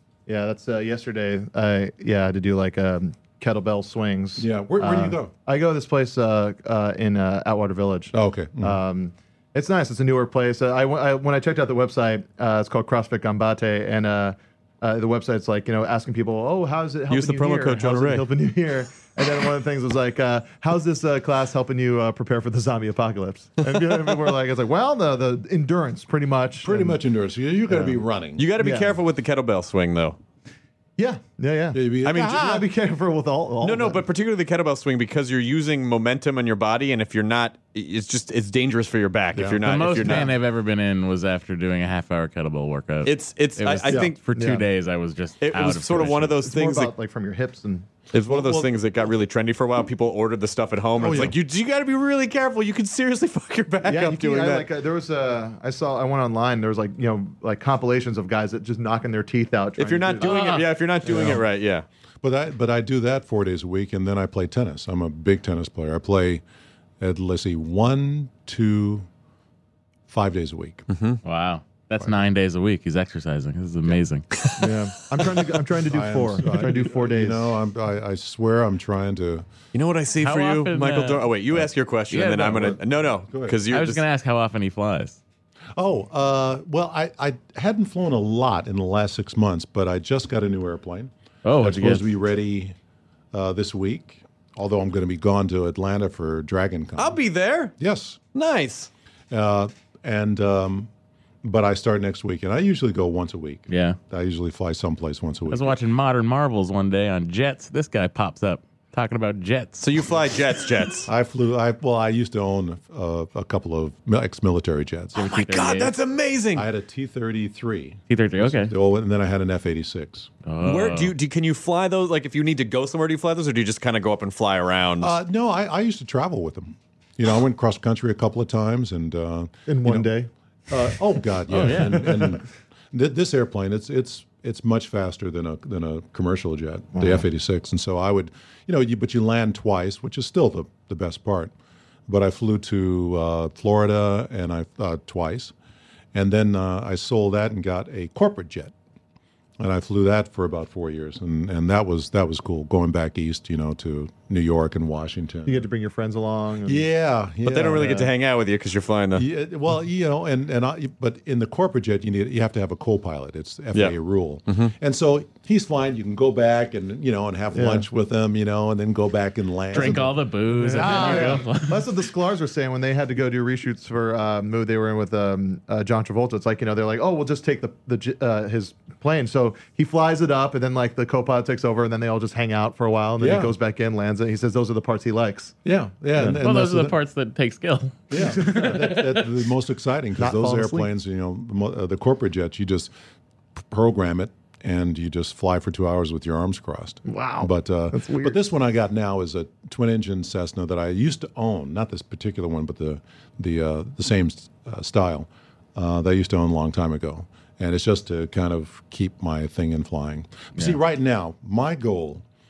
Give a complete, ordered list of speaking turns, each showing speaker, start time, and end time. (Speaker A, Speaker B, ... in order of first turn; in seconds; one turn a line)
Speaker A: 0.3-27.0
Speaker B: 4.4-5.3
Speaker B: 8.1-8.8
Speaker C: 17.1-18.3
Speaker B: 26.6-28.4
Speaker A: 27.7-28.0
Speaker C: 28.4-30.2
Speaker A: 28.6-28.9
Speaker A: 31.0-34.0
Speaker B: 31.7-32.6
Speaker C: 32.0-32.6
Speaker C: 33.6-40.3
Speaker B: 39.3-40.3
Speaker D: 39.6-46.4
Speaker C: 43.0-44.2
Speaker A: 44.3-44.7
Speaker C: 45.4-46.9
Speaker A: 46.4-47.9
Speaker C: 48.1-54.7
Speaker B: 48.2-48.7
Speaker B: 51.0-51.4
Speaker A: 53.8-60.5
Speaker C: 59.8-61.9
Speaker D: 60.2-60.6
Speaker A: 61.1-61.3
Speaker B: 62.2-66.4
Speaker B: 67.0-69.1
Speaker B: 70.1-70.8
Speaker C: 70.9-71.2
Speaker D: 71.2-74.4
Speaker A: 74.6-77.5
Speaker B: 75.8-79.5
Speaker C: 79.7-84.0
Speaker D: 80.2-81.3
Speaker D: 82.1-82.8
Speaker B: 83.3-83.6
Speaker D: 83.7-85.2
Speaker B: 85.8-92.8
Speaker D: 91.4-92.0
Speaker B: 93.3-97.2
Speaker C: 97.0-97.7
Speaker B: 97.8-98.2
Speaker C: 98.3-98.9
Speaker B: 99.3-100.9
Speaker B: 101.4-105.8
Speaker D: 103.7-104.0
Speaker D: 105.5-110.0
Speaker C: 109.8-111.1
Speaker B: 111.0-115.2
Speaker D: 115.2-115.9
Speaker C: 115.2-116.7
Speaker B: 116.5-120.3
Speaker D: 118.1-118.7
Speaker D: 120.5-121.1
Speaker C: 120.6-125.1
Speaker B: 125.0-130.1
Speaker A: 129.7-130.3
Speaker B: 130.7-141.5
Speaker D: 131.5-132.3
Speaker A: 136.9-137.2
Speaker B: 142.1-145.5
Speaker B: 146.1-148.7
Speaker B: 149.6-155.7
Speaker A: 155.4-156.8
Speaker B: 156.6-158.0
Speaker C: 157.4-159.2
Speaker A: 157.8-158.1
Speaker B: 159.1-171.5
Speaker C: 164.5-164.7
Speaker A: 167.5-167.8
Speaker D: 169.7-171.9
Speaker A: 169.8-185.6
Speaker B: 183.2-183.5
Speaker B: 185.6-187.0
Speaker D: 186.3-189.3
Speaker B: 188.1-192.9
Speaker A: 188.2-188.9
Speaker A: 190.2-190.9
Speaker B: 193.6-212.2
Speaker A: 197.1-198.4